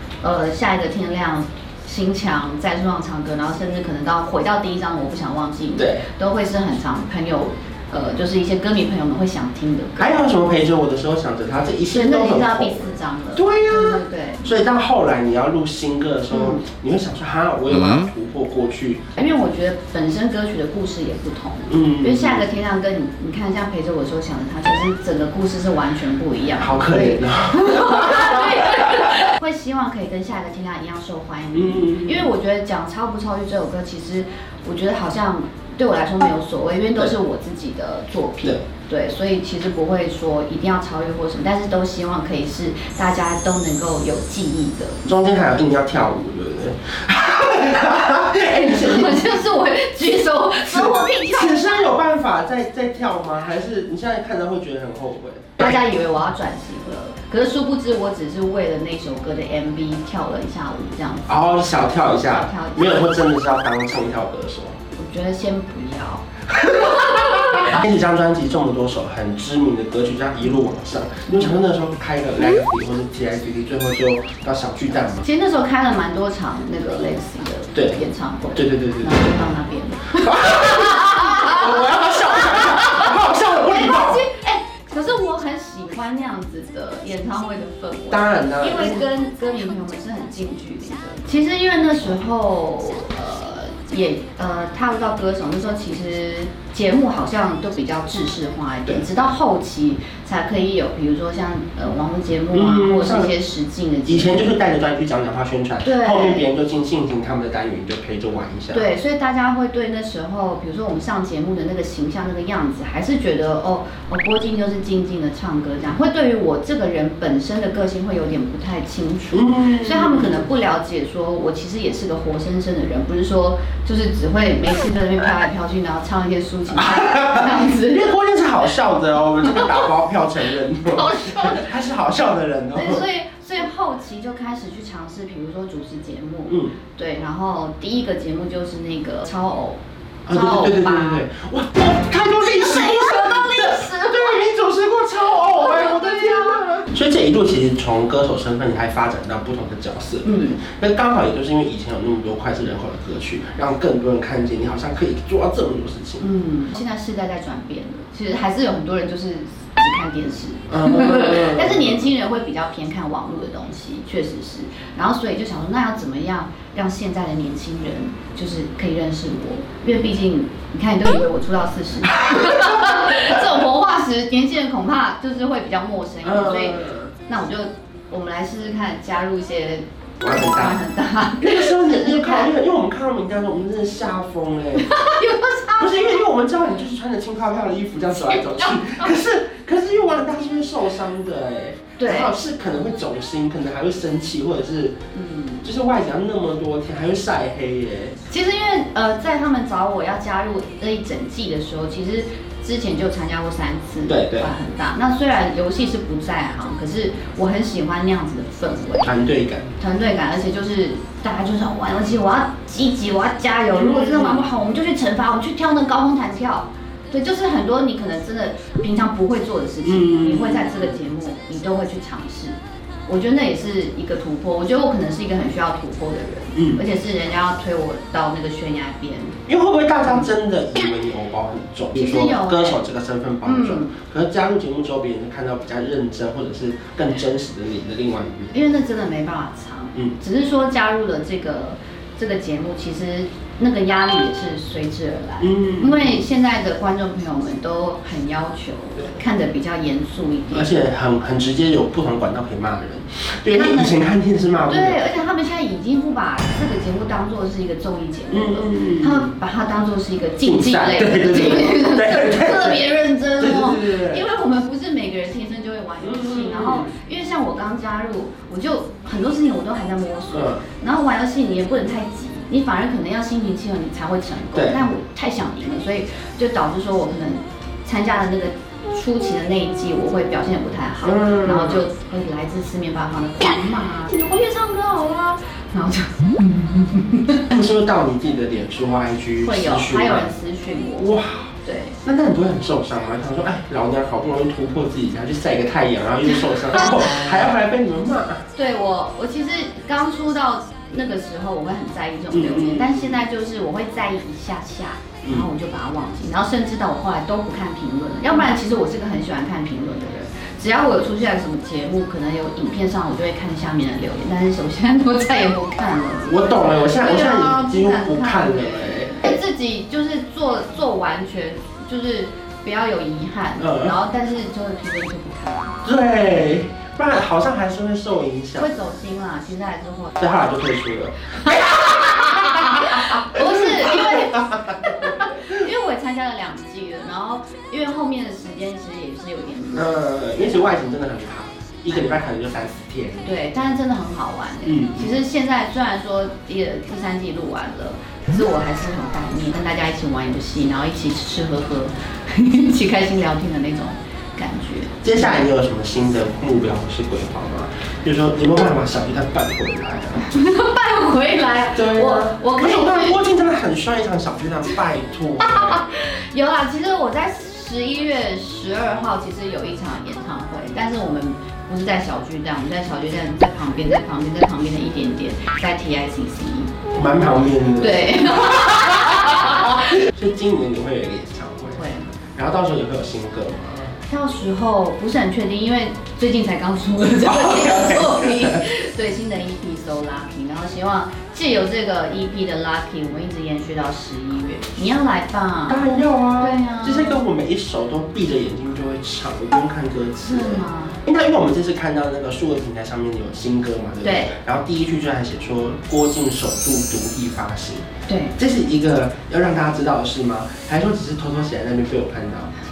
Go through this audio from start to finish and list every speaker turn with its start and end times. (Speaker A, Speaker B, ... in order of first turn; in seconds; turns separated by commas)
Speaker A: 0.2-10.1, Speaker B: 5.8-6.0, Speaker B: 10.0-19.1, Speaker A: 11.9-14.5, Speaker A: 16.3-16.6, Speaker A: 19.1-45.1, Speaker B: 21.7-22.5, Speaker B: 26.6-29.3, Speaker B: 31.5-32.3, Speaker B: 45.1-49.3, Speaker A: 48.6-51.9, Speaker B: 50.7-55.7, Speaker A: 55.6-61.5, Speaker B: 61.3-64.8, Speaker A: 62.0-63.1, Speaker A: 64.9-67.8, Speaker B: 66.5-75.2, Speaker A: 75.2-104.5, Speaker B: 78.5-79.3, Speaker B: 80.2-84.2, Speaker B: 88.1-89.0, Speaker B: 102.5-103.3, Speaker B: 104.0-108.9, Speaker A: 105.8-106.5, Speaker A: 108.7-128.1, Speaker B: 119.3-120.5, Speaker B: 126.7-133.0, Speaker A: 129.4-129.9, Speaker A: 130.8-131.7, Speaker A: 132.7-141.2, Speaker B: 136.5-136.7, Speaker B: 140.3-156.2, Speaker A: 142.3-144.5, Speaker A: 145.3-146.7, Speaker A: 150.2-150.6, Speaker A: 156.2-182.5, Speaker B: 160.7-162.1, Speaker B: 172.1-172.6, Speaker B: 176.2-177.1, Speaker B: 180.2-180.8, Speaker B: 181.4-185.1, Speaker A: 184.8-186.2, Speaker B: 185.8-195.0, Speaker A: 188.1-189.1, Speaker A: 192.0-192.3, Speaker A: 195.1-195.7, Speaker B: 195.6-198.2, Speaker A: 198.3-209.1, Speaker B: 204.1-204.5, Speaker B: 209.0-209.7, Speaker A: 209.8-229.4, Speaker B: 213.7-214.4, Speaker B: 219.8-221.0, Speaker B: 226.5-226.8, Speaker B: 229.5-238.6, Speaker A: 230.0-230.3, Speaker A: 231.9-232.8, Speaker A: 233.4-233.9, Speaker A: 238.5-250.7, Speaker B: 245.4-246.2, Speaker B: 250.5-255.0, Speaker A: 253.5-254.0, Speaker A: 254.7-287.5, Speaker B: 258.3-259.3, Speaker B: 260.4-264.2, Speaker B: 266.0-266.9, Speaker B: 270.3-270.6, Speaker B: 274.5-274.9, Speaker B: 281.0-281.8, Speaker B: 287.5-290.3, Speaker A: 289.4-291.1, Speaker B: 291.0-291.5, Speaker A: 291.6-292.0, Speaker B: 292.0-298.4, Speaker A: 296.5-297.3, Speaker A: 298.5-325.8, Speaker B: 302.3-303.1, Speaker B: 316.2-319.3, Speaker B: 323.6-324.0, Speaker B: 325.8-328.7, Speaker A: 328.6-330.1, Speaker B: 330.2-335.6, Speaker A: 331.4-340.7, Speaker B: 339.7-343.3, Speaker A: 341.9-342.1, Speaker A: 343.2-355.4, Speaker B: 344.6-345.1, Speaker B: 355.0-360.3, Speaker A: 360.3-363.2, Speaker B: 361.7-365.9, Speaker A: 365.4-376.8, Speaker B: 376.9-383.9, Speaker A: 377.8-379.9, Speaker A: 381.7-382.2, Speaker A: 384.1-395.9, Speaker B: 387.5-388.1, Speaker B: 395.7-412.5, Speaker A: 396.4-397.2, Speaker A: 400.3-401.0, Speaker A: 404.0-404.4, Speaker A: 408.1-408.3